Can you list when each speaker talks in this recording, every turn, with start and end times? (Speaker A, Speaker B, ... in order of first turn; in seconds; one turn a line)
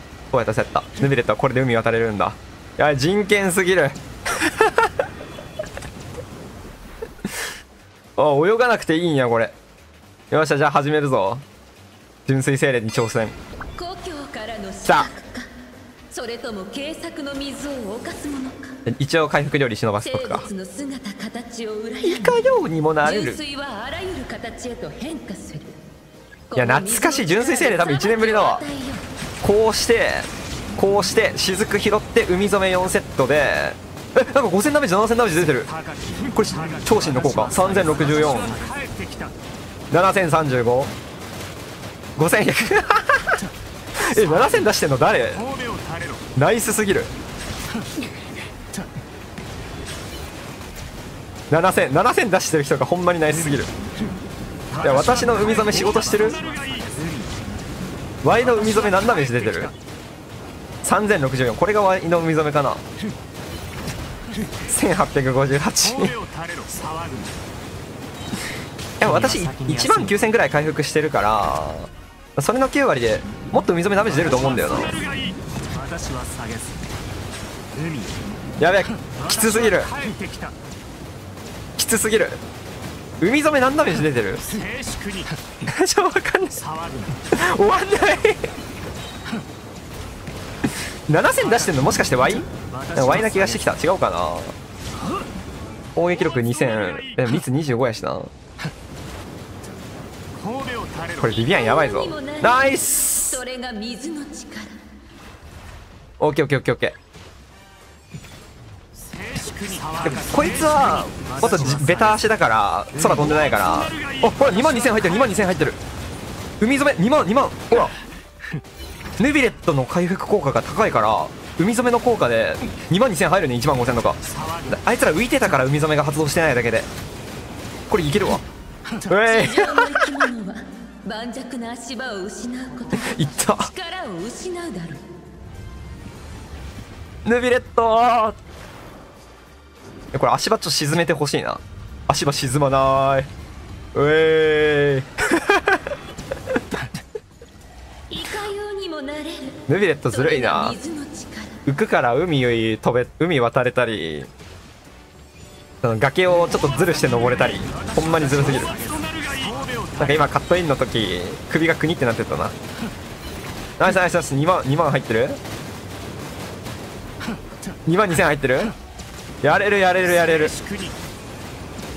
Speaker A: 0.3-4.9
Speaker A: 8.2-9.6
Speaker A: 10.3-11.4
Speaker A: 12.3-13.3
Speaker B: 13.8-15.5
Speaker A: 14.8-15.1
Speaker B: 16.1-18.8
Speaker A: 18.9-20.5
Speaker B: 20.0-22.5
Speaker A: 22.0-23.4
Speaker B: 23.0-25.8
Speaker B: 26.5-29.1
Speaker A: 26.6-28.6
Speaker A: 29.4-35.7
Speaker C: 35.6-39.4
Speaker A: 36.4-38.6
Speaker A: 39.9-41.0
Speaker A: 42.2-43.4
Speaker A: 44.0-45.5
Speaker C: 45.3-46.3
Speaker A: 46.4-47.1
Speaker A: 51.5-53.7
Speaker C: 54.7-57.4
Speaker A: 54.8-56.4
Speaker A: 58.2-59.7
Speaker C: 58.4-59.7
Speaker A: 60.8-62.8
Speaker A: 64.7-66.2
Speaker C: 65.9-67.4
Speaker A: 69.0-75.0
Speaker C: 69.0-70.3
Speaker C: 74.1-77.0
Speaker C: 77.8-78.2
Speaker A: 78.6-79.9
Speaker C: 79.1-80.6
Speaker A: 81.8-82.4
Speaker A: 83.2-84.5
Speaker C: 84.5-85.4
Speaker A: 85.7-86.6
Speaker C: 86.5-87.2
Speaker A: 87.3-88.5
Speaker A: 91.1-94.5
Speaker C: 92.6-93.8
Speaker A: 96.0-98.3
Speaker C: 100.3-101.4
Speaker A: 101.2-103.4
Speaker B: 101.4-104.8
Speaker A: 106.2-107.0
Speaker C: 109.0-112.2
Speaker A: 110.0-115.8
Speaker C: 113.3-115.1
Speaker A: 116.6-118.0
Speaker A: 119.2-126.9
Speaker C: 124.2-124.8
Speaker A: 127.9-128.5
Speaker A: 129.1-130.3
Speaker B: 129.2-135.0
Speaker A: 132.9-133.7
Speaker A: 137.2-138.4
Speaker A: 140.1-143.3
Speaker A: 143.9-145.8
Speaker B: 148.1-151.6
Speaker A: 149.7-150.8
Speaker A: 151.7-154.3
Speaker A: 155.8-158.8
Speaker C: 156.5-160.2
Speaker A: 160.0-162.5
Speaker A: 163.8-165.4
Speaker A: 167.9-168.8
Speaker A: 169.4-170.6
Speaker C: 170.1-171.0